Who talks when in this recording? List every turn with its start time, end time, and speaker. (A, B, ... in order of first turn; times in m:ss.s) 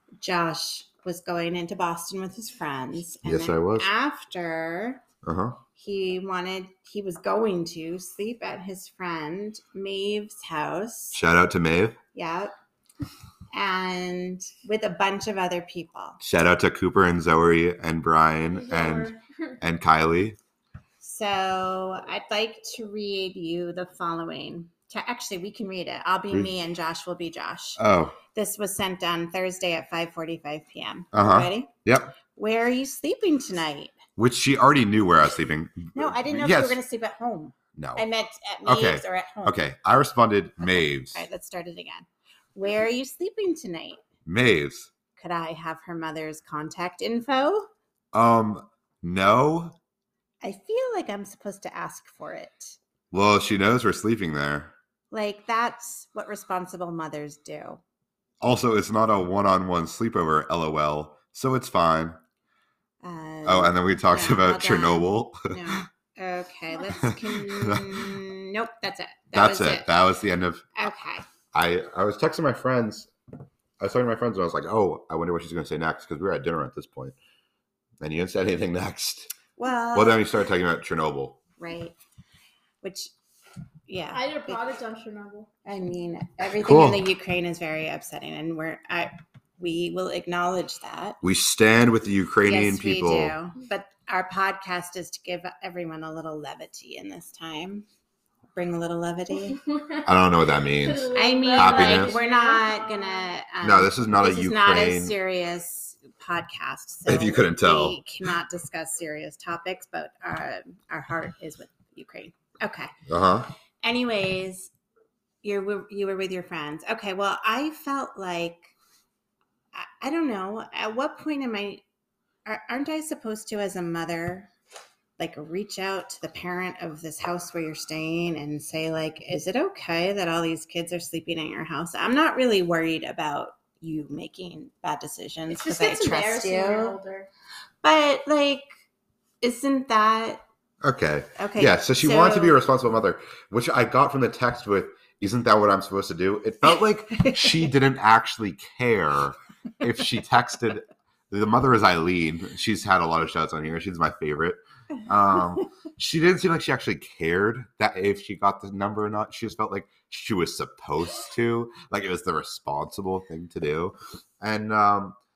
0:00.2-0:05.0 A
0:03.2-0:03.9 B
0:05.2-0:05.6 B
0:05.7-0:11.2 A
0:11.1-0:12.0 B
0:12.1-0:12.5 A
0:13.5-0:16.2 A
0:16.2-0:20.4 B
0:18.5-0:19.6 C
0:21.0-0:27.8 A
0:27.8-0:28.2 B
0:28.3-0:31.7 A
0:31.1-0:32.2 B
0:32.3-0:34.0 A
0:34.2-0:36.8 B
0:35.9-0:39.6 A
0:37.8-0:38.0 B
0:38.6-0:41.2 B
0:40.6-0:44.0 A
0:44.2-0:44.9 B
0:45.2-0:47.7 A
0:48.1-0:49.7 B
0:50.4-0:52.8 A
0:53.1-0:54.7 B
0:55.1-0:57.8 A
0:58.4-1:02.2 B
1:03.0-1:09.9 A
1:03.4-1:05.8 B
1:07.0-1:08.1 B
1:09.3-1:10.6 B
1:10.8-1:11.2 A
1:11.5-1:13.1 B
1:13.8-1:17.2 B
1:18.0-1:19.3 B
1:19.6-1:20.2 A
1:19.9-1:21.4 B
1:21.6-1:22.0 A
1:22.8-1:23.1 A
1:23.9-1:24.7 A
1:24.1-1:25.5 C
1:25.6-1:31.2 A
1:26.6-1:27.1 B
1:31.2-1:33.3 B
1:32.4-1:37.8 A
1:38.5-1:39.6 A
1:39.4-1:40.1 C
1:40.0-1:42.2 B
1:40.7-1:43.3 C
1:41.1-1:52.9 A
1:43.6-1:45.1 B
1:47.1-1:48.0 B
1:53.1-1:53.5 B
1:53.8-1:54.7 A
1:55.4-1:58.7 A
1:59.7-2:01.8 A
2:02.4-2:04.5 A
2:05.2-2:17.0 A
2:15.5-2:17.3 C
2:17.8-2:18.6 A
2:19.4-2:20.4 A
2:20.8-2:45.2 B
2:21.4-2:22.6 A
2:26.7-2:27.7 A